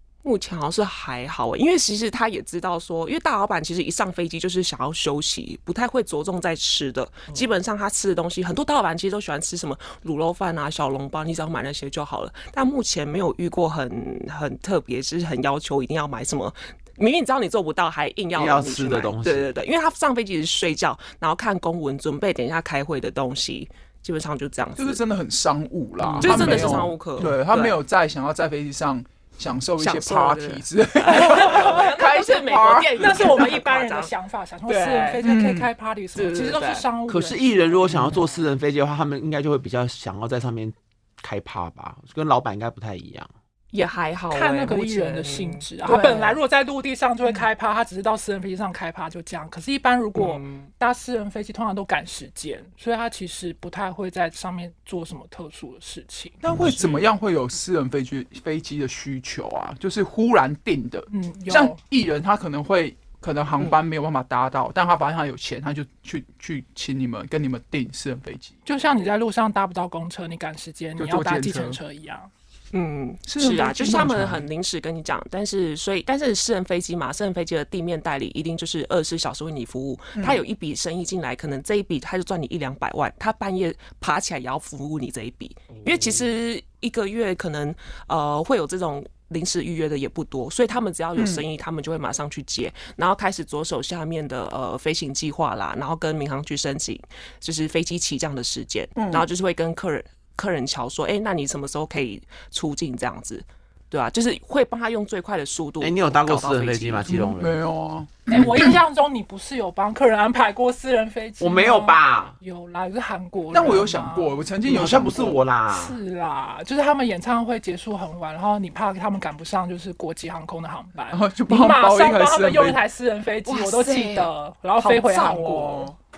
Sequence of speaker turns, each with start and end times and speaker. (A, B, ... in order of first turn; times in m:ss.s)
0:00.2-0:25.0 A
0:18.3-0:19.5 B
0:24.8-0:33.5 C
0:26.0-0:26.7 B
0:26.2-0:27.7 A
0:29.8-0:34.1 A
0:31.2-0:31.9 D
0:33.0-0:38.1 D
0:34.7-0:35.2 A
0:35.2-0:35.7 C
0:36.1-0:36.8 A
0:37.1-0:43.3 B
0:43.7-0:46.4 A
0:44.3-0:56.4 D
0:50.2-0:50.7 A
0:56.4-1:08.6 C
0:56.6-0:57.0 A
1:01.1-1:01.8 D
1:08.6-1:12.3 D
1:11.0-1:11.8 C
1:12.7-1:47.2 A
1:13.3-1:14.4 C
1:20.2-1:20.4 C
1:25.8-1:26.2 B
1:31.2-1:31.4 C
1:39.0-1:39.2 C
1:45.8-1:47.6 B
1:47.1-1:48.8 C
1:48.3-1:54.4 D
1:51.4-1:52.3 B
1:53.5-1:55.4 C
1:54.6-1:56.0 B
1:55.2-2:05.9 D
2:01.1-2:02.8 C
2:03.4-2:05.7 A
2:05.4-2:06.0 C